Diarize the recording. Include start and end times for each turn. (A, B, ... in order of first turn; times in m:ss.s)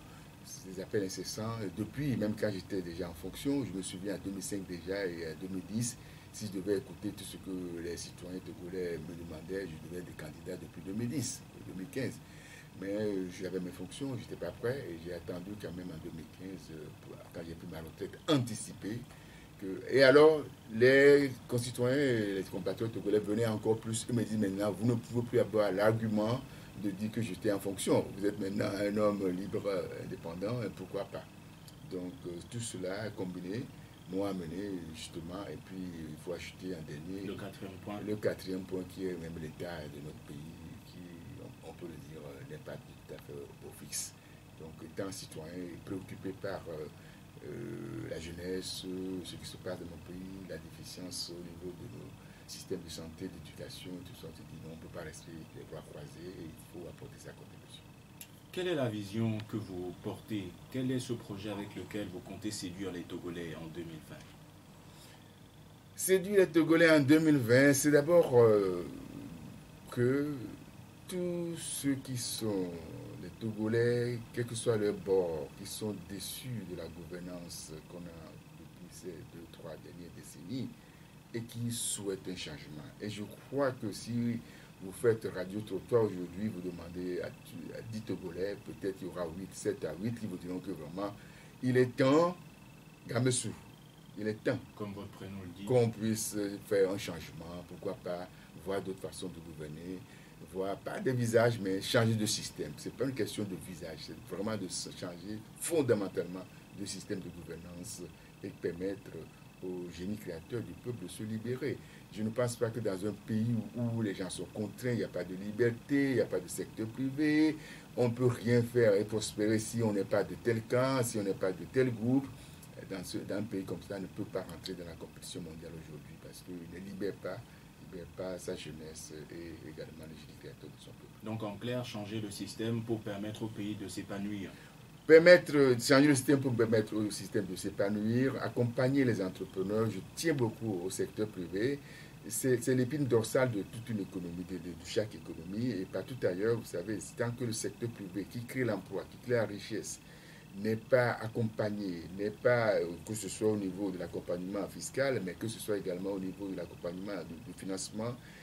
0:00.4-0:12.2 A
0:12.7-0:19.1 A
0:19.6-0:31.3 A
0:31.8-0:37.4 A
0:37.2-0:38.1 B
0:38.0-0:57.9 A
0:58.5-1:04.2 B
1:06.0-1:20.8 A
1:21.3-1:32.4 A
1:33.0-1:34.6 A
1:34.8-1:35.8 B
1:35.7-2:11.2 A
2:11.2-2:14.6 B
2:15.1-2:38.2 A